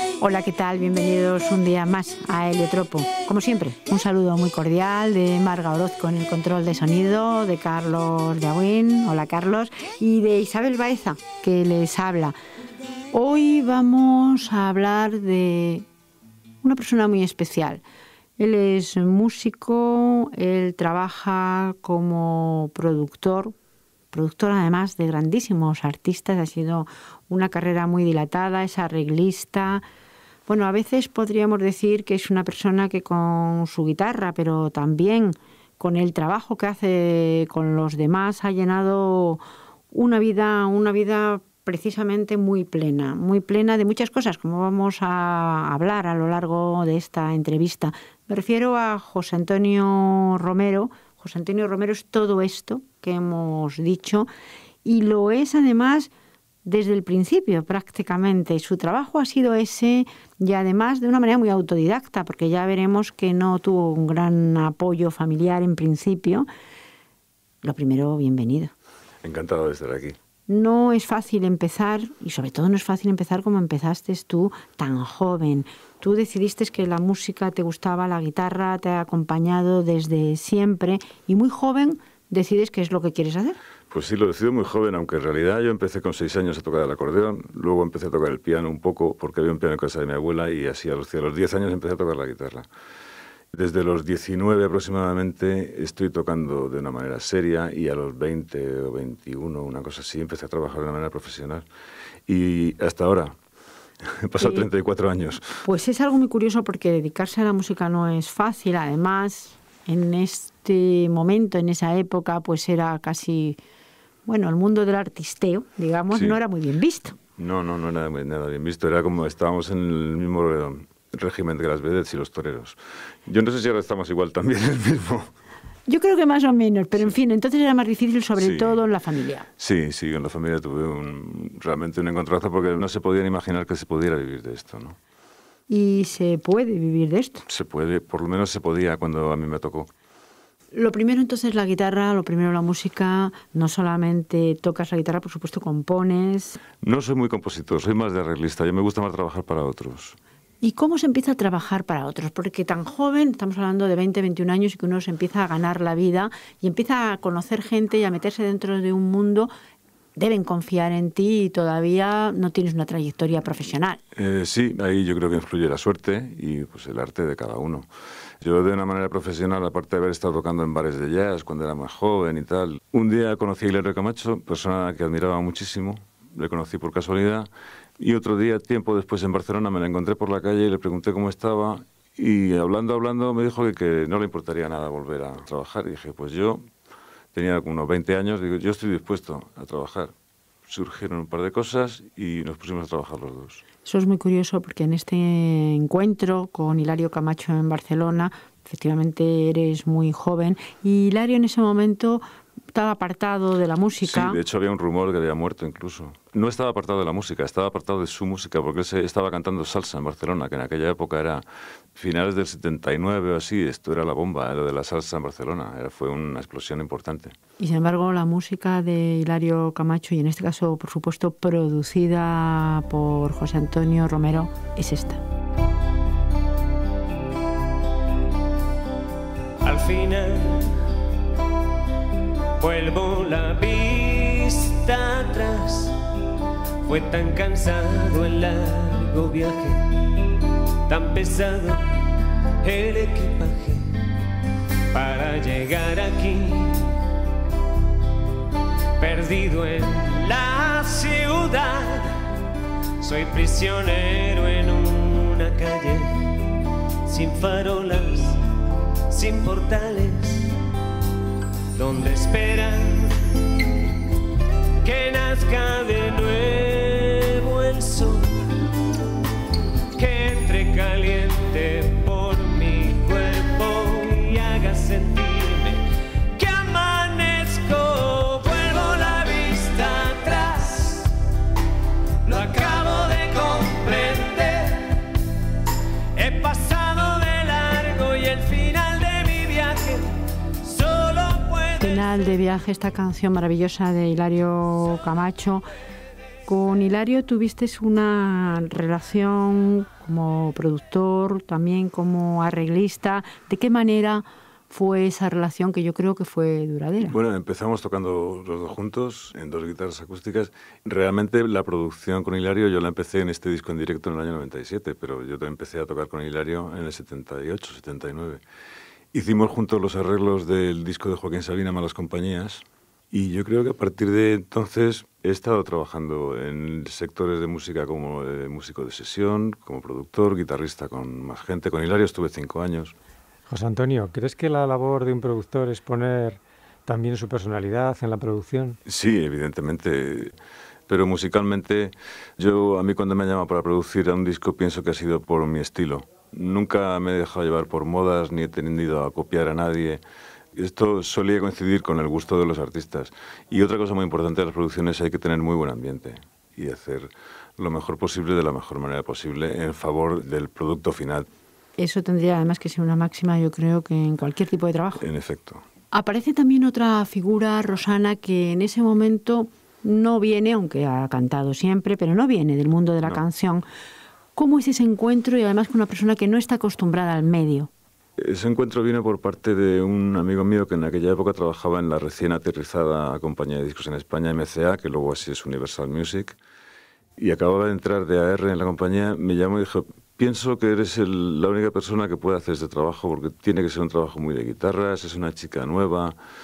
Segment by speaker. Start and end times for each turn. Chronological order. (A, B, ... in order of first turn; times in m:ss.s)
0:00.2-0:12.3 A
0:13.1-0:15.8 A
0:16.6-0:17.8 A
0:18.4-0:23.5 A
0:24.1-0:29.8 A
0:30.5-0:39.4 A
0:39.9-0:54.3 A
0:54.8-0:56.1 A
0:56.6-1:06.4 A
1:07.6-1:08.7 A
1:09.2-1:10.2 B
1:10.5-1:23.6 A
1:23.9-1:32.6 B
1:33.5-1:41.6 B
1:42.3-1:43.3 B
1:44.0-1:45.6 B
1:44.4-1:44.7 A
1:45.6-1:53.6 A
1:54.2-1:57.2 A
1:56.1-1:56.4 B
1:57.4-2:05.3 B
2:05.9-2:09.4 A
2:08.4-2:08.8 B
2:09.6-2:15.0 B
2:15.7-2:17.4 A
2:17.5-2:19.9 B
2:20.7-2:26.6 A
2:26.8-2:30.2 B
2:30.6-2:39.5 A
2:40.2-2:44.0 A
2:44.1-2:47.9 B
2:48.4-3:06.6 B
3:07.3-3:10.1 B
3:10.7-3:13.6 B
3:13.8-3:24.4 A
3:24.0-3:31.4 B
3:32.0-3:37.3 B
3:37.6-3:45.2 A
3:49.6-3:50.8 C
3:52.6-3:56.0 C
3:56.8-4:00.2 C
4:00.9-4:01.8 C
4:02.6-4:04.0 C
4:04.9-4:06.9 C
4:09.0-4:12.2 C
4:13.0-4:16.5 C
4:17.0-4:18.4 C
4:19.1-4:20.6 C
4:21.7-4:23.4 C
4:24.8-4:28.6 C
4:30.0-4:41.2 C
4:42.2-4:45.0 C
4:46.2-4:50.0 C
4:50.6-4:52.1 C
4:51.8-4:55.6 A
4:56.4-5:07.2 A
5:07.0-5:18.4 B
5:19.1-5:32.9 B
5:33.5-5:38.8 D
5:38.8-5:40.3 B
5:40.9-5:50.0 B
5:50.5-6:01.3 B
6:01.8-6:05.0 A
6:05.0-6:05.6 B
6:05.9-6:13.6 A
6:14.4-6:17.7 A
6:18.2-6:26.4 B
6:27.2-6:36.1 B